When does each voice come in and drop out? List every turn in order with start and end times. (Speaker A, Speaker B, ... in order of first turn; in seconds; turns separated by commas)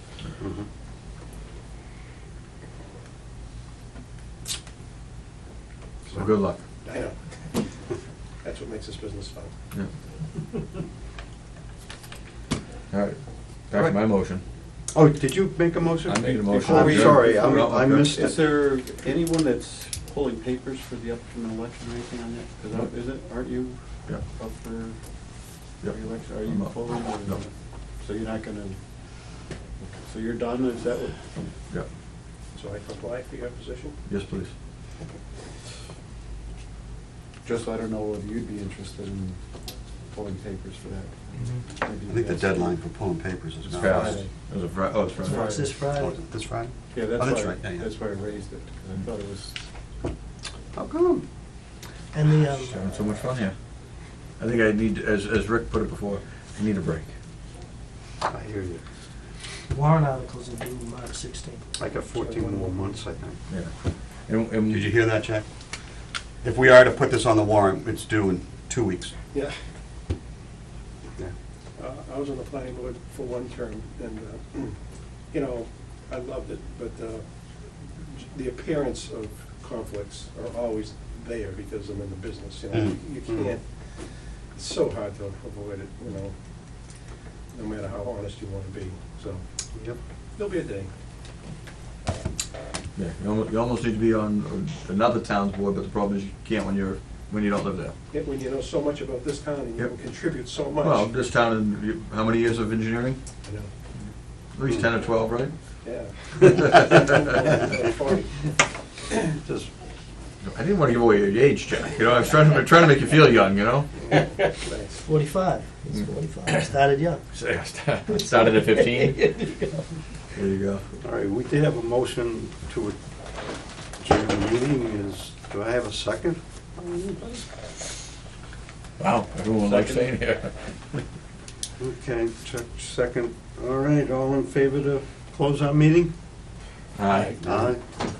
Speaker A: 0.4-0.7, Speaker B: 6.1-6.6, Speaker C: 6.8-7.8, Speaker C: 8.4-9.5, Speaker B: 12.9-13.2, Speaker B: 13.7-14.4, Speaker A: 14.9-18.4, Speaker B: 16.1-18.3, Speaker D: 16.2-25.0, Speaker D: 25.8-28.8, Speaker B: 25.8-27.4, Speaker D: 29.8-31.2, Speaker C: 32.5-34.0, Speaker B: 34.1-34.5, Speaker D: 37.4-39.4, Speaker D: 40.1-42.8, Speaker E: 41.4-41.6, Speaker A: 42.1-44.2, Speaker B: 43.7-45.5, Speaker D: 43.9-44.3, Speaker E: 45.2-46.2, Speaker D: 45.3-45.8, Speaker A: 45.9-47.9, Speaker D: 46.9-49.7, Speaker A: 50.7-51.3, Speaker E: 52.1-52.9, Speaker B: 52.5-53.5, Speaker B: 54.4-57.1, Speaker A: 58.3-58.8, Speaker E: 59.7-61.6, Speaker A: 61.8-63.4, Speaker C: 62.1-62.9, Speaker B: 64.3-64.9, Speaker A: 64.7-65.5, Speaker A: 66.4-69.1, Speaker C: 71.8-74.8, Speaker C: 75.3-77.3, Speaker C: 77.8-86.4, Speaker C: 87.5-89.5, Speaker C: 90.4-90.9, Speaker B: 93.0-97.9, Speaker C: 98.1-101.1, Speaker B: 100.7-103.2, Speaker C: 103.4-103.7, Speaker B: 104.5-105.5, Speaker C: 105.8-108.5, Speaker B: 106.4-107.0, Speaker A: 109.3-109.7, Speaker B: 110.4-114.3, Speaker C: 114.0-115.0, Speaker E: 115.0-117.2, Speaker B: 115.9-116.6, Speaker B: 117.3-119.4, Speaker E: 118.2-119.8, Speaker B: 120.3-120.8, Speaker A: 121.0-123.0, Speaker A: 124.0-127.5, Speaker B: 129.0-131.1, Speaker D: 129.7-130.1, Speaker A: 131.8-136.1, Speaker B: 136.9-137.4, Speaker C: 137.1-137.3, Speaker A: 137.4-137.8